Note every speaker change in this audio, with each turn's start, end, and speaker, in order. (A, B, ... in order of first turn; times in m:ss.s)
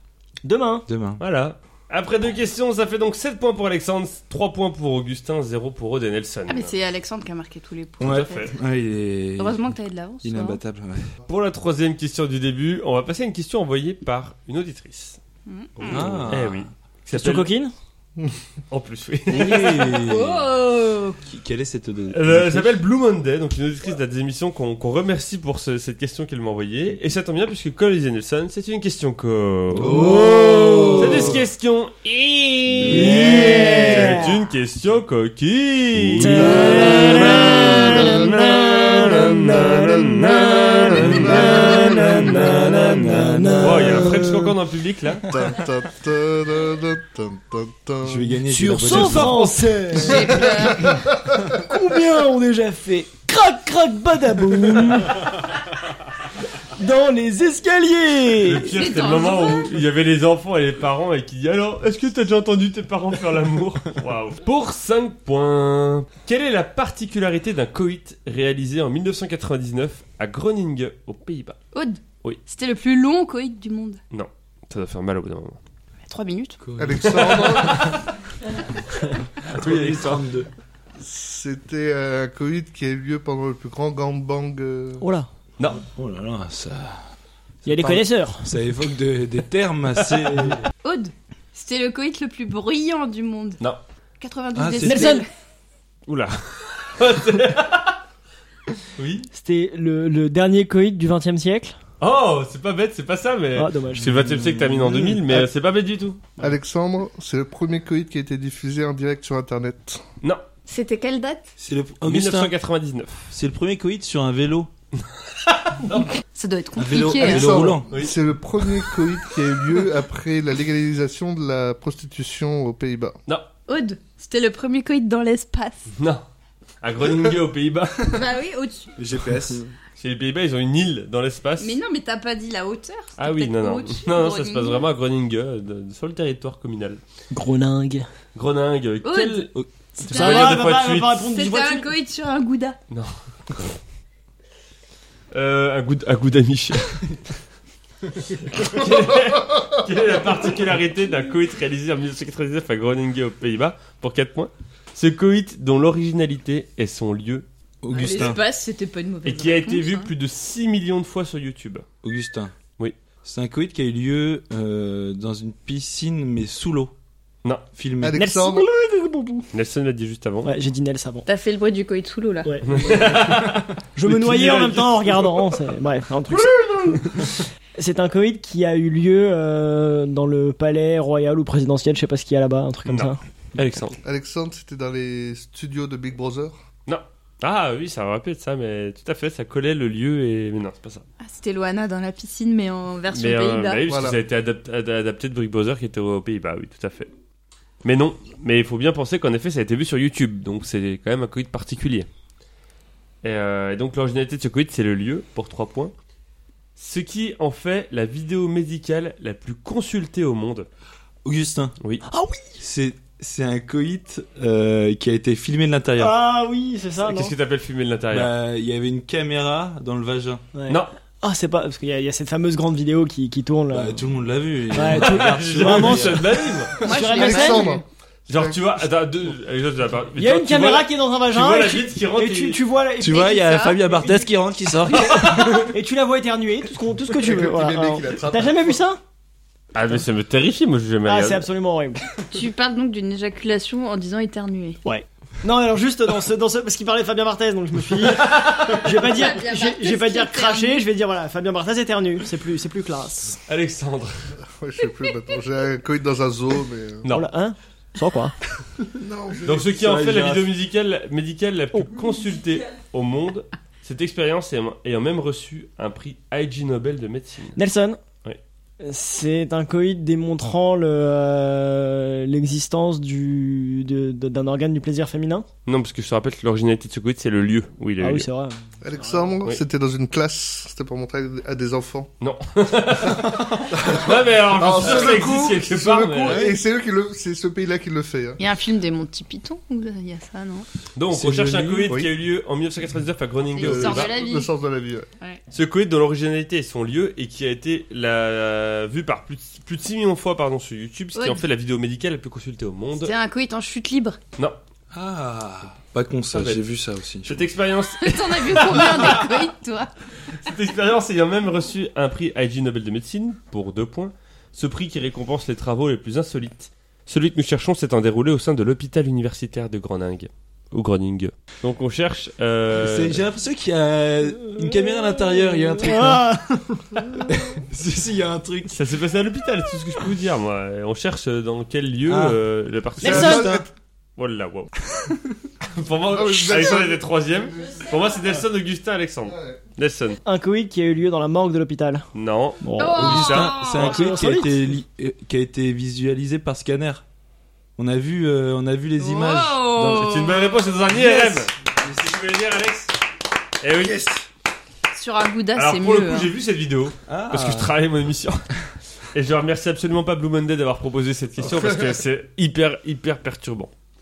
0:00.4-0:00.8 A
0:00.9-0:01.2 B
0:01.2-0:06.8 C
0:06.5-0:08.5 D
0:08.0-0:09.7 B
0:08.0-0:08.5 C
0:09.4-0:10.6 D
0:10.2-0:11.1 B
0:11.3-0:15.2 C
0:15.5-0:16.3 D
0:15.8-0:16.7 B
0:15.8-0:17.5 C
0:17.1-0:17.7 A
0:18.7-0:19.8 C
0:19.3-0:20.5 B
0:20.0-0:21.2 D
0:21.2-0:22.8 B
0:22.1-0:43.0 C
0:29.7-0:31.4 B
0:32.8-0:33.8 B
0:32.8-0:34.2 A
0:36.0-0:36.9 B
0:36.2-0:44.5 A
0:36.4-0:38.5 E
0:39.4-0:41.7 E
0:41.4-0:44.1 B
0:43.6-0:45.4 C
0:45.3-0:48.4 E
0:48.0-0:49.4 B
0:48.5-0:50.5 A
0:48.9-0:49.8 C
0:50.0-0:50.9 D
0:50.5-0:51.6 E
0:51.5-0:55.3 A
0:56.8-0:58.8 A
0:58.4-1:11.6 C
0:58.7-0:59.8 D
1:11.7-1:14.0 D
1:14.1-1:15.6 C
1:16.1-1:16.6 D
1:16.6-1:18.0 B
1:16.8-1:17.9 E
1:17.2-1:18.0 C
1:19.4-1:20.5 B
1:19.5-1:20.2 C
1:21.0-1:25.0 E
1:25.0-1:25.3 A
1:25.7-1:27.1 B
1:27.6-1:28.5 A
1:27.6-1:30.6 B
1:30.0-1:30.6 C
1:30.8-1:33.6 D
1:34.2-1:35.3 D
1:34.6-1:35.1 B
1:34.8-1:35.2 A
1:36.1-1:38.0 C
1:38.8-1:39.3 C
1:39.3-1:41.8 A
1:42.0-1:46.2 C
1:43.6-1:44.2 A
1:44.1-1:45.2 B
1:46.4-1:50.0 E
1:50.7-1:51.5 D
1:51.6-1:52.5 B
1:52.0-1:53.3 C
1:53.3-1:54.7 B
1:55.4-1:56.2 C
1:56.2-1:57.6 D
1:56.8-1:57.9 B
1:57.2-2:03.2 E
1:57.9-1:58.2 C
2:03.7-2:05.9 D
2:06.0-2:06.2 C
2:06.8-2:08.3 C
2:08.1-2:09.0 D
2:09.0-2:09.7 B
2:10.0-2:11.8 C
2:11.6-2:14.9 D
2:13.2-2:17.0 C
2:17.3-2:18.1 A
2:18.4-2:21.2 C
2:19.0-2:20.7 D
2:20.0-2:21.9 A
2:21.2-2:22.8 D
2:25.3-2:27.2 C
2:28.2-2:38.4 C
2:37.8-2:38.4 B
2:37.9-2:40.1 D
2:39.2-2:41.9 C
2:42.0-2:42.5 B
2:43.2-2:46.9 B
2:47.7-2:48.2 B
2:48.0-2:48.7 E
2:48.1-2:49.5 A
2:49.5-2:50.5 C
2:50.4-2:51.2 A
2:51.2-2:52.6 D
2:52.4-2:52.7 A
2:52.7-2:55.6 C
2:54.0-2:57.2 A
2:57.8-3:03.2 A
3:02.9-3:04.0 C
3:04.0-3:06.6 E
3:06.9-3:11.0 C
3:11.2-3:13.9 D
3:13.1-3:17.1 C
3:13.9-3:14.2 E
3:17.8-3:22.1 C
3:23.2-3:25.9 C
3:26.8-3:30.7 C
3:31.2-3:31.8 B
3:32.1-3:32.6 A
3:32.6-3:36.2 B
3:36.0-3:37.3 A
3:37.0-3:38.3 C
3:38.1-3:40.4 B
3:40.6-3:44.0 A
3:43.7-3:46.8 B
3:44.7-3:46.3 A
3:44.9-3:46.8 C
3:46.8-3:47.8 D
3:46.8-3:47.8 A
3:47.1-3:48.7 E
3:48.3-3:52.6 C
3:50.2-3:53.4 A
3:53.0-3:55.7 B
3:53.0-3:53.9 D
3:55.0-3:59.0 A
3:55.1-3:55.6 C
3:57.1-3:58.7 E
3:59.7-4:01.5 C
4:01.1-4:02.0 A
4:02.3-4:04.8 D
4:04.8-4:13.4 A
4:08.0-4:08.8 C
4:08.6-4:10.8 D
4:13.5-4:14.2 C
4:14.6-4:17.1 E
4:17.0-4:17.3 C
4:17.1-4:18.3 A
4:18.9-4:19.7 E
4:19.4-4:27.6 C
4:19.6-4:20.5 B
4:27.6-4:28.0 A
4:28.8-4:35.5 A
4:35.7-4:38.3 C
4:38.0-4:39.3 A
4:38.8-4:42.1 E
4:42.2-4:46.6 C
4:43.2-4:48.4 E
4:44.8-4:45.2 B
4:46.2-4:46.6 B
4:48.4-4:50.7 D
4:51.0-4:54.1 C
4:51.1-4:52.0 B
4:53.5-4:54.5 D
4:53.6-4:55.1 E
4:55.5-5:03.1 C
5:01.2-5:01.4 D
5:03.0-5:04.2 D
5:04.9-5:07.5 B
5:06.3-5:06.6 C
5:07.2-5:09.3 C
5:08.0-5:09.9 D
5:10.4-5:23.2 C
5:22.7-5:26.7 B
5:24.6-5:27.4 A
5:27.2-5:28.8 B
5:28.7-5:33.5 C
5:32.1-5:32.4 B
5:33.0-5:33.6 A
5:33.0-5:33.7 E
5:34.2-5:34.7 C
5:35.6-5:40.2 C
5:36.1-5:37.0 E
5:39.3-5:39.6 E
5:40.2-5:42.0 A
5:42.2-5:43.8 C
5:42.6-5:43.2 A
5:42.8-5:44.1 D
5:42.9-5:47.0 B
5:43.8-5:44.7 A
5:47.8-5:50.1 B
5:49.0-5:50.7 D
5:49.9-5:52.9 C
5:50.9-5:52.2 B
5:53.6-5:54.1 C
5:53.9-5:54.2 E
5:54.9-5:56.3 D
5:55.6-5:58.4 C
5:57.1-5:57.8 B
5:59.1-6:03.7 C
6:01.5-6:02.0 E